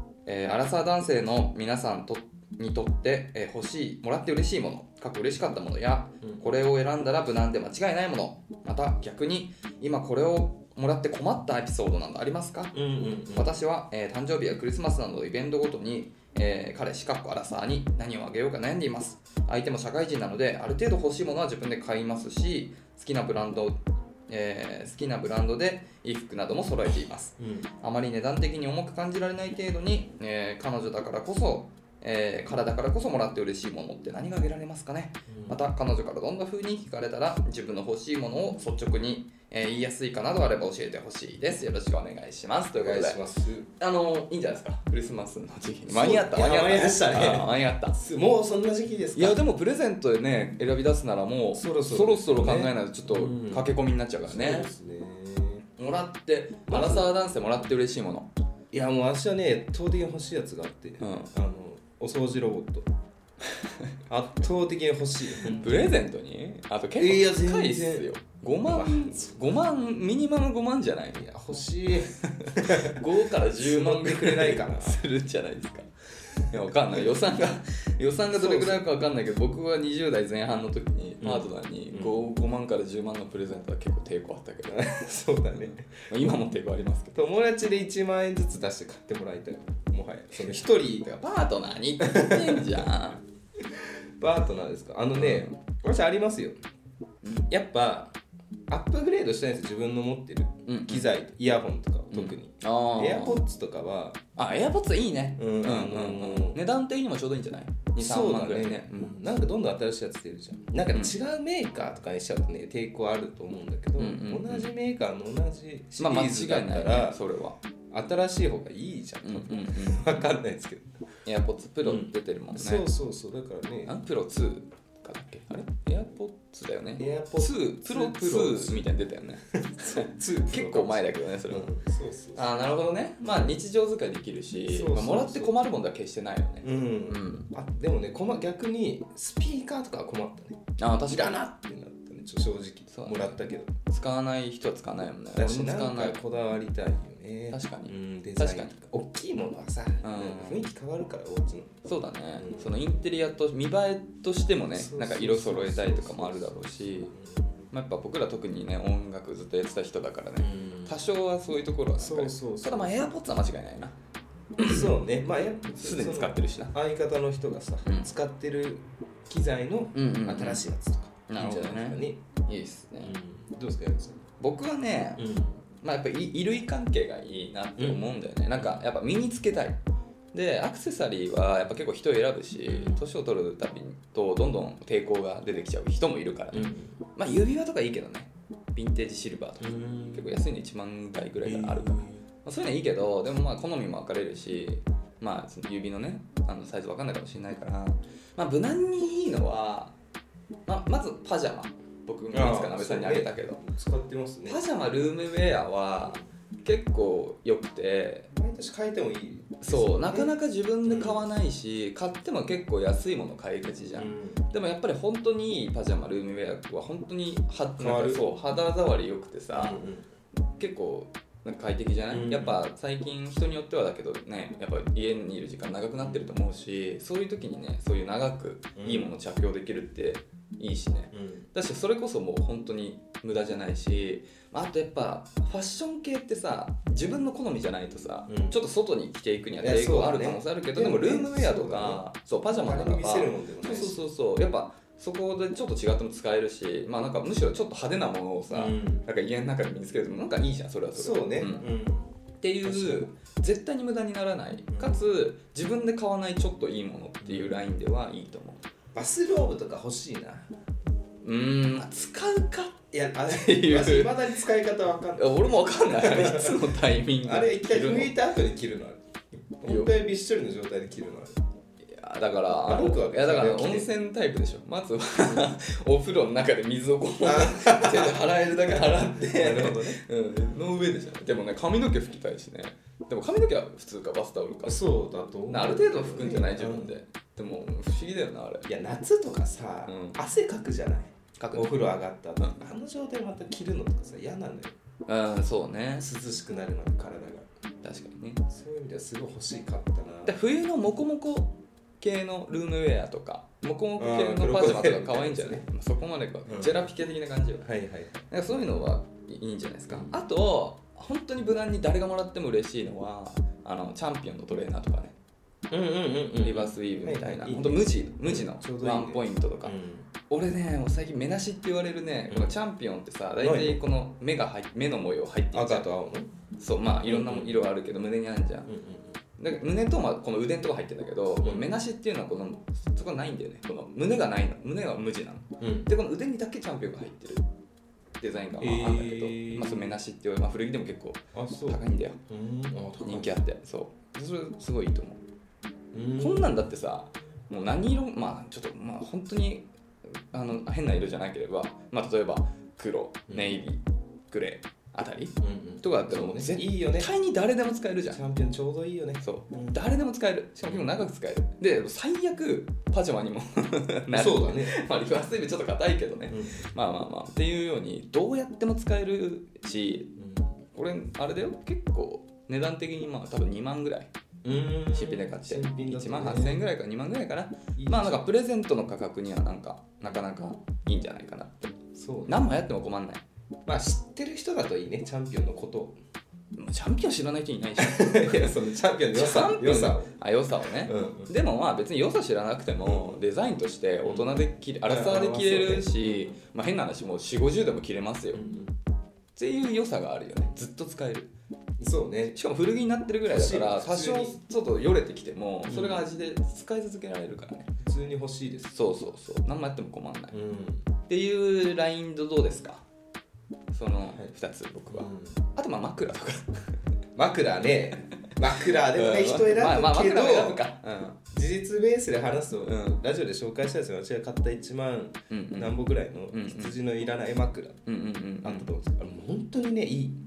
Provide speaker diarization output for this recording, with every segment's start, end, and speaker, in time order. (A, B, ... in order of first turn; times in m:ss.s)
0:00.2-0:12.8 A
0:12.7-0:13.5 B
0:13.3-0:43.2 A
0:27.4-0:27.7 B
0:35.3-0:35.6 B
0:42.8-0:43.7 B
0:43.8-0:48.0 A
0:45.9-0:49.4 B
0:49.2-0:54.7 A
0:51.5-0:55.6 B
0:55.8-0:58.3 A
0:56.7-0:57.1 B
0:58.7-1:02.9 B
1:01.0-1:01.3 A
1:04.1-1:05.9 B
1:05.4-1:11.2 A
1:07.0-1:08.1 B
1:08.6-1:09.4 B
1:11.1-1:13.0 B
1:12.2-1:15.9 A
1:13.6-1:15.0 B
1:16.4-1:27.2 A
1:18.3-1:18.8 B
1:21.2-1:22.2 B
1:24.7-1:26.0 B
1:27.1-1:31.1 B
1:31.0-1:33.2 A
1:32.0-1:32.9 B
1:33.6-1:36.6 B
1:35.2-1:35.6 A
1:37.5-1:38.2 B
1:38.7-1:44.2 B
1:40.7-1:41.1 A
1:42.1-1:43.4 A
1:44.4-1:49.1 A
1:45.4-1:46.6 B
1:48.0-1:57.2 B
1:54.0-1:54.7 A
1:56.0-1:57.6 A
1:57.9-2:01.0 B
1:59.2-2:00.1 A
2:01.2-2:02.9 A
2:01.8-2:03.9 B
2:03.9-2:11.8 A
2:07.0-2:08.9 B
2:09.5-2:12.5 B
2:12.4-2:17.5 A
2:14.7-2:15.6 B
2:16.6-2:23.7 B
2:20.8-2:21.5 A
2:22.9-2:26.2 A
2:25.3-2:31.7 B
2:27.5-2:28.8 A
2:30.0-2:30.7 A
2:31.9-2:37.1 A
2:32.4-2:32.7 B
2:34.7-2:37.6 B
2:37.7-2:44.0 A
2:40.4-2:41.0 B
2:42.0-2:43.0 B
2:44.6-2:45.0 A
2:44.6-2:52.2 B
2:45.8-2:46.7 A
2:49.9-2:50.6 A
2:51.3-2:53.1 A
2:53.0-2:54.2 B
2:54.4-2:55.3 A
2:55.2-2:55.6 B
2:55.8-2:59.8 A
2:58.6-2:58.9 B
3:00.3-3:19.9 A
3:02.7-3:03.0 B
3:06.5-3:07.0 B
3:09.6-3:10.4 B
3:11.4-3:12.2 B
3:20.7-3:23.6 A
3:22.3-3:24.6 B
3:24.5-3:28.3 A
3:26.0-3:26.3 B
3:28.3-3:30.3 B
3:29.6-3:39.8 A
3:30.8-3:31.2 B
3:33.9-3:34.4 B
3:37.8-3:38.2 B
3:39.5-3:40.1 B
3:40.5-4:11.6 A
3:42.1-3:42.6 B
3:46.0-3:46.3 B
3:48.8-3:49.1 B
3:51.1-3:51.5 B
3:58.3-3:58.6 B
3:59.6-4:04.0 B
4:08.5-4:09.0 B
4:10.9-4:13.1 B
4:12.4-4:18.6 A
4:14.7-4:15.0 B
4:17.2-4:17.6 B
4:18.9-4:20.5 B
4:21.2-4:24.2 A
4:22.9-4:26.6 B
4:25.2-4:28.1 A
4:27.2-4:29.0 B
4:29.6-4:31.4 B
4:29.7-4:29.9 A
4:31.8-4:44.8 A
4:32.6-4:33.9 B
4:37.2-4:40.0 B
4:44.6-4:46.9 B
4:45.5-4:48.7 A
4:48.7-4:54.7 B
4:49.9-4:50.2 A
4:51.4-4:51.8 A
4:52.4-4:52.6 A
4:55.1-4:56.1 A
4:56.0-4:57.5 B
4:57.8-4:58.4 A
4:58.5-5:00.4 B
5:00.3-5:07.7 A
5:04.0-5:05.6 B
5:06.5-5:06.9 B
5:07.6-5:08.2 B
5:08.3-5:15.2 A
5:15.7-5:20.1 B
5:16.4-5:19.8 A
5:20.3-5:25.9 A
5:22.3-5:22.6 B
5:23.4-5:23.8 B
5:25.5-5:26.3 B
5:26.6-5:28.7 A
5:27.0-5:27.6 B
5:28.7-5:29.2 B
5:29.4-5:37.4 A
5:31.4-5:31.7 B
5:35.6-5:35.9 B
5:38.2-5:42.2 A
5:38.6-5:39.9 B
5:41.3-5:43.4 B
5:43.0-5:45.2 A
5:45.9-5:46.7 B
5:46.2-5:58.2 A
5:53.3-5:53.6 B
5:55.4-5:57.1 B
5:58.1-5:59.8 B
5:59.2-6:10.1 A
6:04.1-6:04.8 B
6:06.3-6:06.7 B
6:10.2-6:10.5 B
6:10.7-6:14.1 A
6:14.4-6:16.6 B
6:14.9-6:21.7 A
6:17.8-6:18.3 B
6:21.9-6:22.5 B
6:22.3-6:23.2 A
6:23.7-6:26.0 B
6:26.6-6:28.6 A
6:27.8-6:30.1 B
6:29.1-6:38.4 A
6:30.7-6:31.3 B
6:32.8-6:33.2 B
6:34.0-6:36.4 B
6:38.3-6:38.8 B
6:39.4-6:41.3 A
6:41.8-6:42.4 B
6:42.3-6:47.7 A
6:43.3-6:44.4 B
6:45.7-6:46.1 B
6:47.8-6:48.7 B
6:48.7-6:50.4 A
6:50.3-6:50.9 B
6:51.1-6:52.8 A
6:53.7-6:56.6 A
6:54.9-6:55.4 B
6:57.2-7:00.6 B
6:58.2-7:01.2 A
7:01.3-7:07.8 B
7:02.6-7:03.0 A
7:05.3-7:06.7 A
7:07.9-7:08.7 A
7:08.4-7:10.2 B